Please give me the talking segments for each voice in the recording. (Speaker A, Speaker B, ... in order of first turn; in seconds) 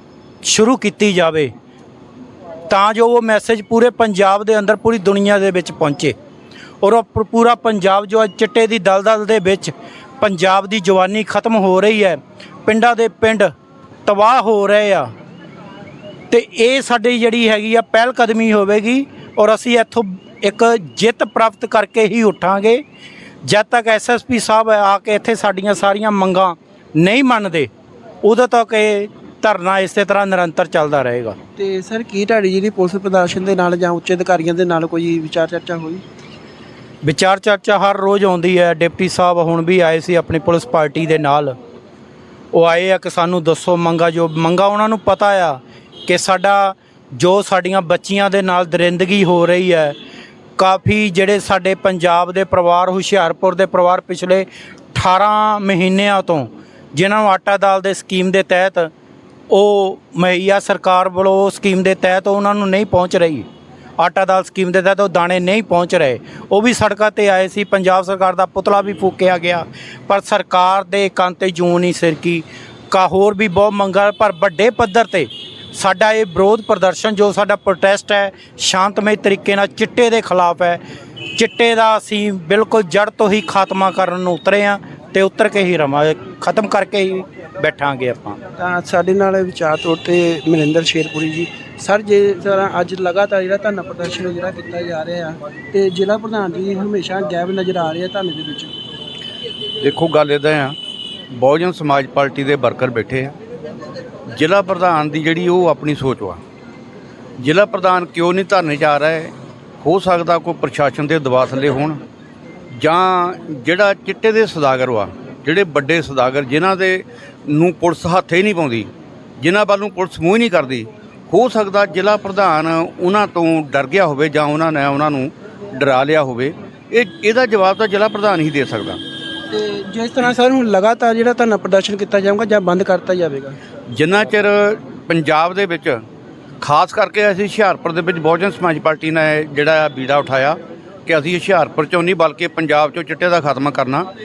Speaker A: 0.4-1.5, 2.7-6.2, 6.8-13.5, 14.1-15.1, 16.3-22.8, 23.4-27.7, 28.2-31.4, 37.0-41.5, 42.5-50.0, 50.6-58.9, 59.5-63.5, 64.0-80.8, 81.3-88.4
Speaker B: 31.6-36.0, 88.6-98.7, 129.5-133.6
Speaker C: 99.8-100.8, 101.3-103.3, 104.3-106.4, 107.4-112.0, 112.7-129.0, 133.9-136.0, 136.6-144.1